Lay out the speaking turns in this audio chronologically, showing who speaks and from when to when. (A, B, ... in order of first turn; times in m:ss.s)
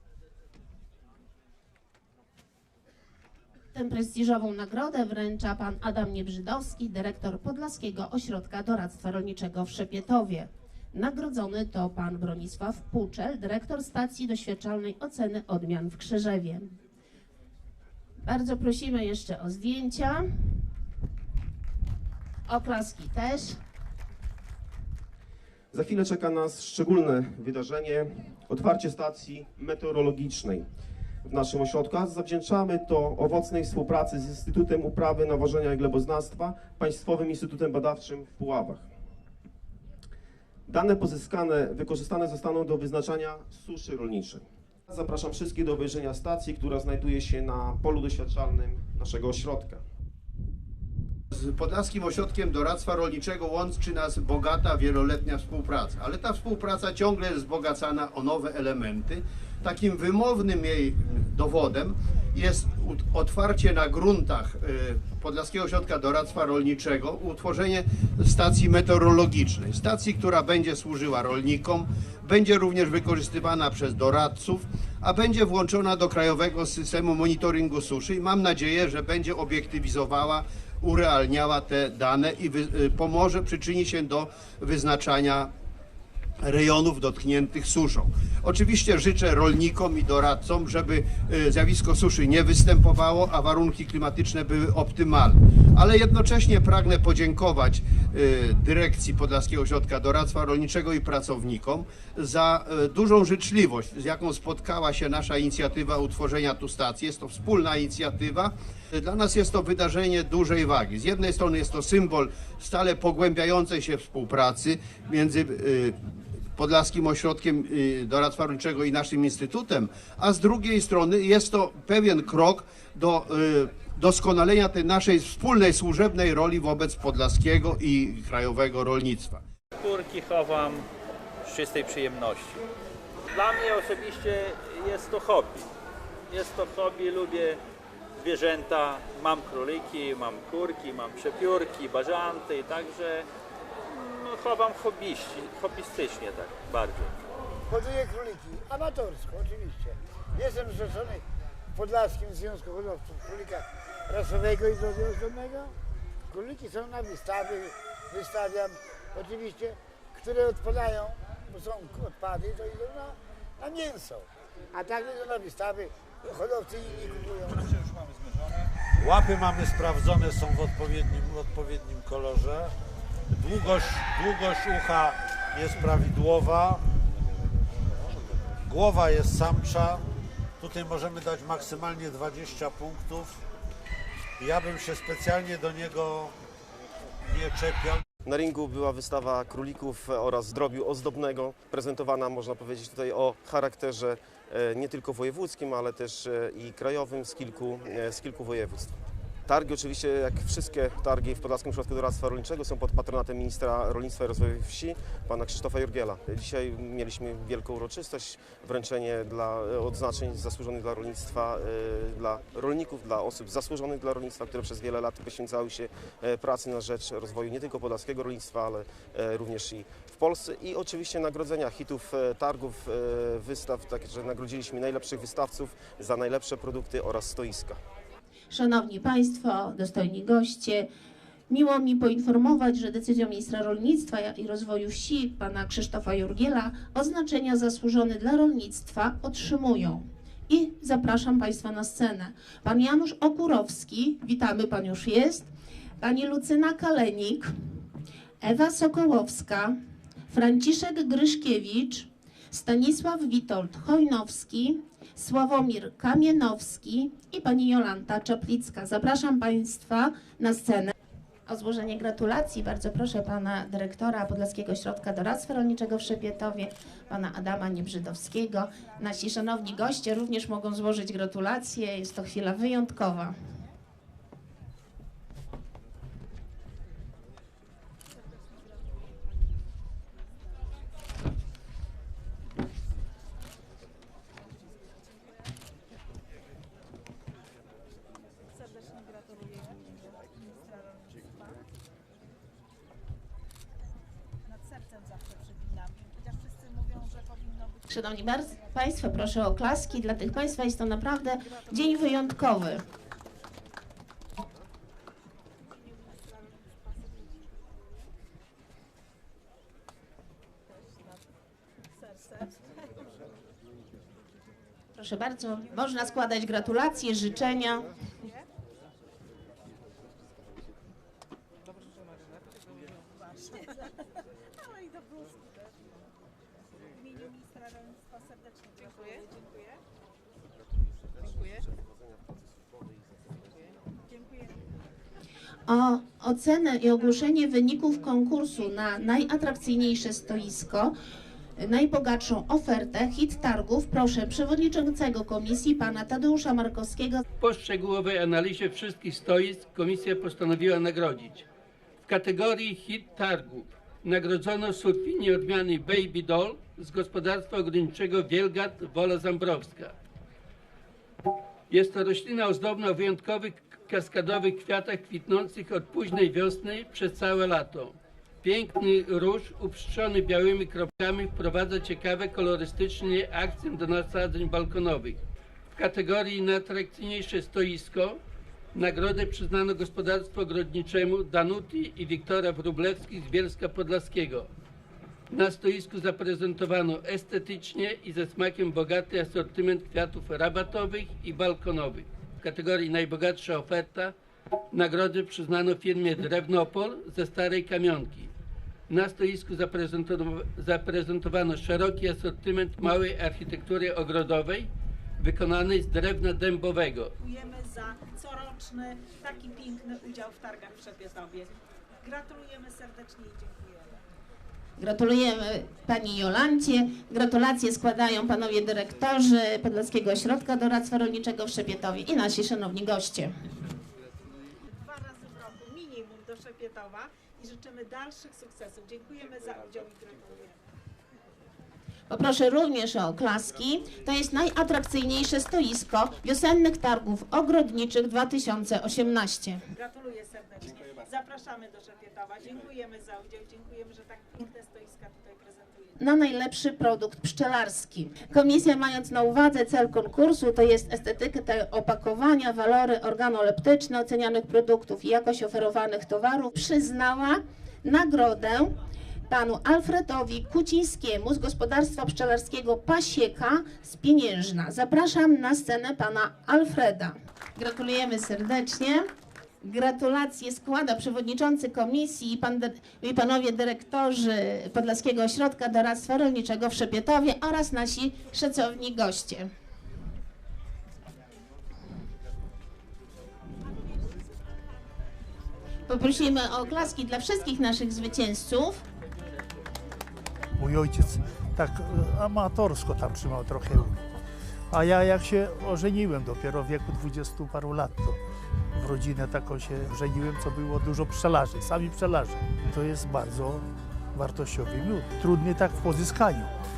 0:03.7-0:16.7 A
0:18.2-0:20.6 A
0:22.5-0:23.6 A
0:25.7-0:30.7 B
0:31.2-0:38.9 B
0:40.7-0:49.8 B
0:51.3-1:25.5 C
1:26.4-2:09.4 C
2:09.8-2:10.9 D
2:11.4-2:12.6 D
2:13.3-2:15.7 D
2:16.3-2:17.6 D
2:18.2-2:23.3 D
2:23.9-2:27.2 D
2:27.7-2:31.2 E
2:31.7-2:35.8 E
2:36.3-2:47.8 E
2:49.0-2:52.7 F
2:53.3-2:56.8 F
2:58.7-3:00.0 F
3:00.6-3:03.4 F
3:04.4-3:06.4 F
3:07.2-3:08.0 F
3:08.2-3:19.0 B
3:19.5-3:47.8 B
3:48.5-3:50.9 A
3:51.5-4:07.5 A
4:08.4-4:09.8 A
4:10.3-4:20.9 A
4:21.5-4:33.4 A
4:48.5-4:51.6 G
4:54.4-4:57.8 G
4:57.9-5:02.8 A
5:05.6-5:08.1 G
5:10.8-5:11.2 G
5:12.0-5:13.0 G
5:15.0-5:18.0 A
5:18.1-5:18.4 G
5:23.2-5:25.8 G
5:27.0-5:29.8 G
5:31.3-5:31.5 G
5:34.1-5:34.6 G
5:35.7-5:40.9 A
5:41.6-5:47.2 A
5:47.4-5:51.4 H
5:52.0-5:59.9 H
6:01.7-6:15.2 H
6:15.8-6:18.2 H
6:18.8-6:24.5 H
6:25.3-6:34.1 H
6:34.7-6:38.3 H
6:38.9-6:44.7 H
6:45.2-6:47.1 H
6:47.2-6:54.0 G
6:54.8-7:03.3 A
7:04.6-7:10.7 G
7:12.1-7:19.6 A
7:19.7-7:25.9 G
7:26.0-7:38.8 A
7:39.3-7:49.1 A
7:49.6-7:59.5 A
8:03.7-8:04.6 G
8:05.9-8:08.8 A
8:10.6-8:14.1 I
8:14.7-8:18.2 I
8:18.7-8:26.5 I